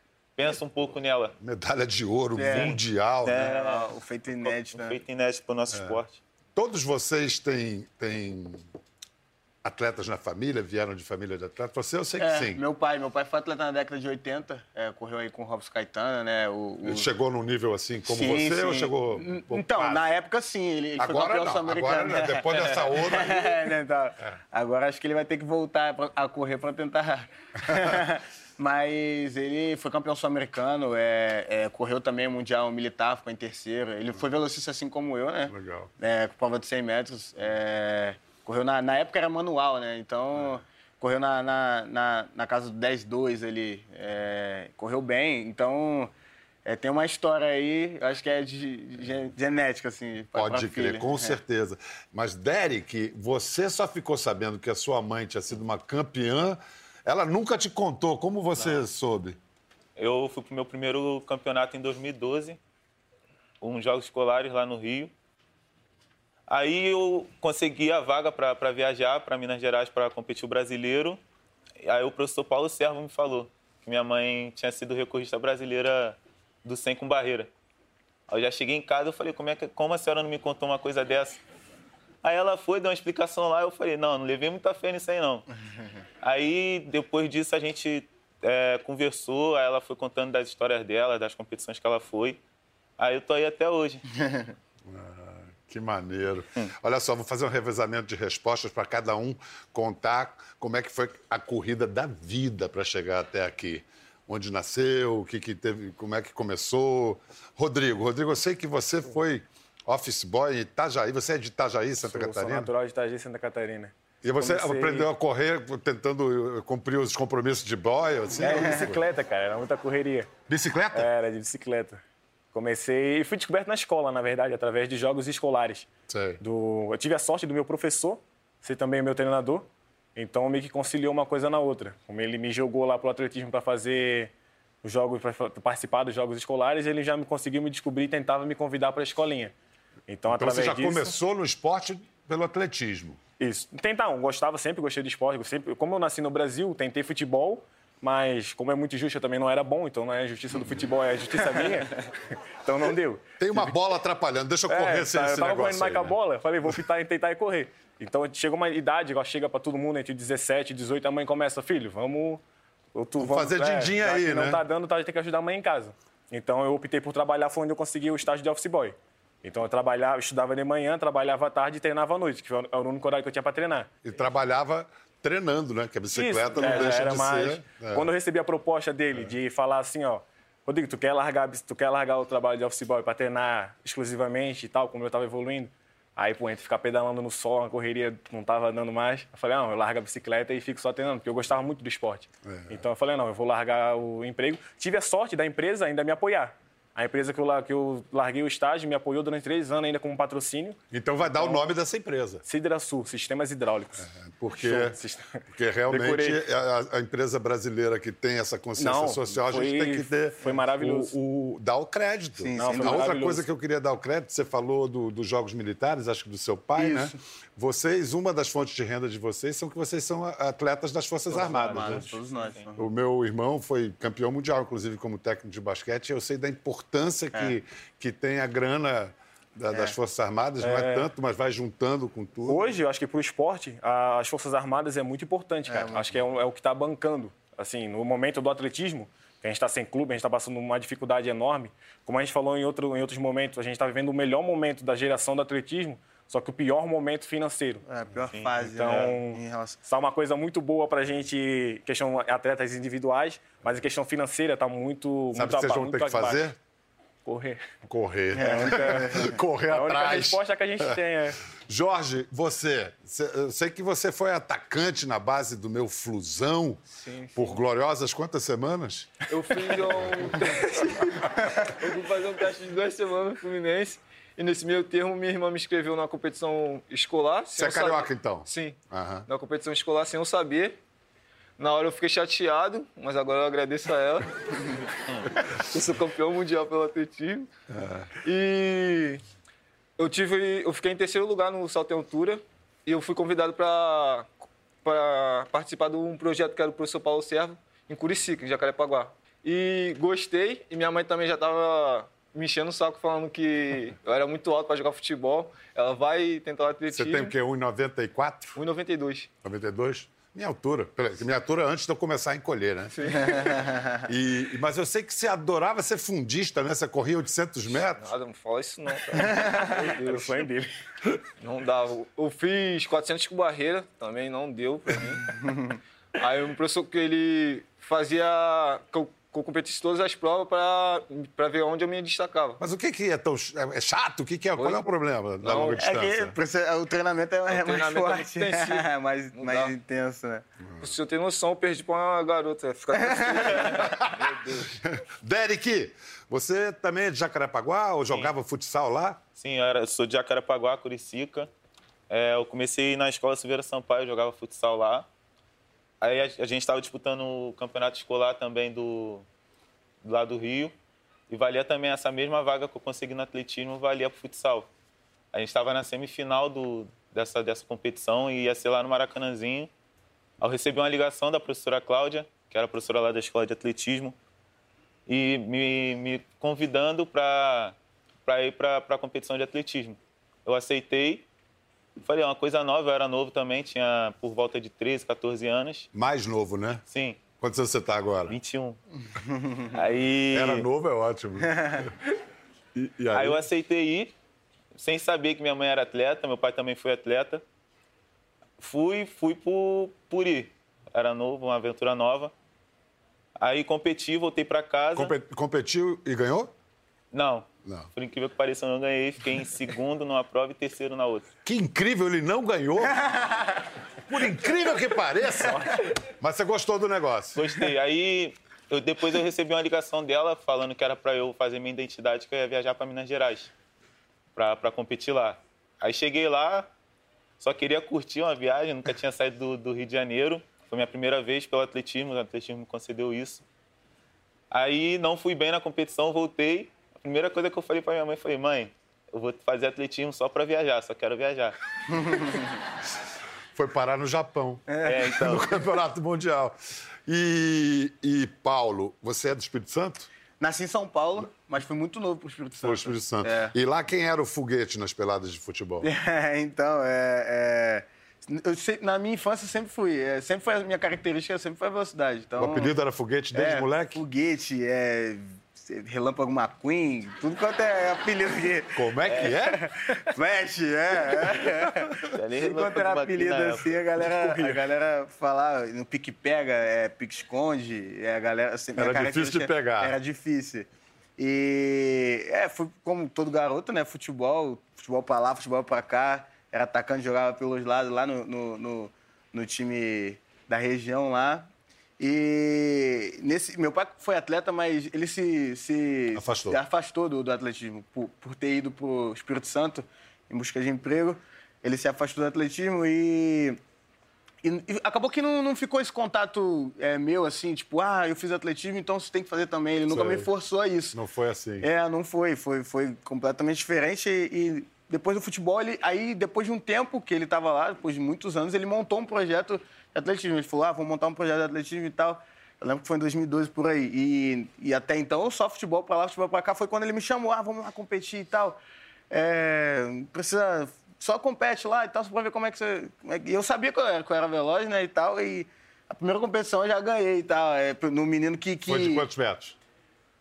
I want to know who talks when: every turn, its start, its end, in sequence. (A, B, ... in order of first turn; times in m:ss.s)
0:00.4-0:01.4 A
0:01.4-0:03.5 B
0:02.4-0:02.8 C
0:02.5-0:06.2 A
0:03.4-0:05.0 C
0:05.7-0:06.0 B
0:06.6-0:08.7 B
0:09.6-0:12.6 B
0:12.2-0:17.1 C
0:16.8-0:20.1 B
0:18.0-0:46.1 C
0:21.0-0:23.7 B
0:35.5-0:35.9 B
0:46.6-0:51.4 C
0:50.4-0:59.4 B
1:00.0-1:02.6 A
1:03.6-1:05.1 A
1:06.5-1:11.2 A
1:11.8-1:17.5 A
1:18.3-1:21.4 A
1:22.2-1:25.5 A
1:26.2-1:32.4 A
1:33.0-1:34.0 A
1:34.2-1:34.5 C
1:34.9-1:52.7 B
1:52.0-1:55.1 D
1:54.2-1:59.0 B
1:58.4-2:00.3 D
2:00.5-2:01.1 B
2:00.9-2:02.0 D
2:02.5-2:05.9 D
2:06.1-2:06.4 B
2:06.4-2:14.3 D
2:14.8-2:19.5 D
2:20.1-2:21.2 D
2:20.3-2:23.2 B
2:23.4-2:32.0 D
2:32.6-2:33.7 D
2:33.4-2:36.2 B
2:34.7-2:42.4 D
2:42.9-2:53.9 D
2:43.2-2:44.6 B
2:54.0-2:58.1 B
2:56.1-3:21.6 D
3:12.4-3:12.8 B
3:20.9-3:22.4 B
3:22.4-3:24.1 D
3:24.0-3:25.0 B
3:24.6-3:26.4 D
3:25.5-3:42.2 B
3:28.8-3:31.2 D
3:32.4-3:33.1 C
3:32.6-3:33.4 D
3:36.8-3:37.2 C
3:41.3-3:42.8 C
3:41.5-3:42.1 D
3:42.8-3:52.7 B
3:50.6-3:51.1 D
3:52.5-4:07.8 D
3:55.7-3:56.2 C
4:07.9-4:09.8 C
4:08.6-4:16.4 D
4:15.3-4:16.6 B
4:17.3-4:17.6 D
4:17.8-4:21.0 B
4:18.3-4:19.4 C
4:18.4-4:21.4 D
4:21.7-4:26.8 B
4:27.0-4:27.6 E
4:27.4-4:29.1 B
4:29.3-4:40.8 E
4:37.6-4:39.3 B
4:41.6-4:44.8 E
4:45.5-4:47.5 E
4:47.7-4:48.1 B
4:48.2-4:49.2 E
4:50.0-4:54.3 E
4:54.8-5:07.3 E
5:06.9-5:08.6 B
5:08.6-5:09.3 E
5:09.4-5:13.2 B
5:13.0-5:13.3 E
5:13.3-5:14.0 C
5:14.0-5:18.1 B
5:18.0-5:20.4 E
5:19.8-5:20.7 D
5:21.4-5:25.3 E
5:25.5-5:25.8 C
5:26.2-5:32.6 E
5:32.6-5:36.4 B
5:34.6-5:34.9 E
5:35.4-5:35.8 E
5:35.8-5:40.4 C
5:37.5-5:39.7 E
5:40.8-5:44.8 E
5:43.0-5:43.9 C
5:43.9-5:44.2 B
5:44.8-5:49.2 B
5:49.4-5:51.5 A
5:52.1-5:55.1 A
5:56.0-5:59.3 A
6:00.0-6:00.7 A
6:01.3-6:04.7 A
6:05.3-6:09.7 A
6:10.4-6:14.2 A
6:15.1-6:21.3 A
6:22.0-6:25.9 A
6:25.9-6:26.8 B
6:26.9-6:27.2 A
6:27.4-6:28.4 B
6:28.3-6:28.8 A
6:29.2-6:29.7 C
6:29.7-6:30.7 A
6:30.3-6:31.9 B
6:32.8-6:33.4 B
6:33.1-6:34.1 A
6:34.8-6:37.4 A
6:38.6-6:42.3 A
6:43.4-6:45.2 A
6:45.0-6:46.5 B
6:47.1-6:51.3 A
6:51.4-6:53.1 B
6:54.1-6:57.4 B
6:57.4-7:03.5 A
7:04.4-7:06.7 A
7:07.4-7:13.4 A
7:14.5-7:21.6 A
7:21.9-7:22.5 C
7:23.6-7:30.1 B
7:24.8-7:25.2 C
7:24.8-7:25.5 A
7:30.4-7:33.5 C
7:32.6-7:35.9 B
7:35.8-7:42.7 C
7:42.4-7:44.0 B
7:43.3-8:11.5 C
7:48.8-7:49.6 B
7:49.1-7:49.4 A
7:52.1-7:53.8 A
7:54.2-7:54.6 D
7:58.8-8:00.0 B
8:12.0-8:23.6 C
8:16.2-8:16.6 B
8:24.4-8:31.0 C
8:29.9-8:30.3 B
8:30.9-8:31.7 B
8:31.6-8:48.6 C
8:49.1-8:59.0 C
8:58.7-8:59.6 B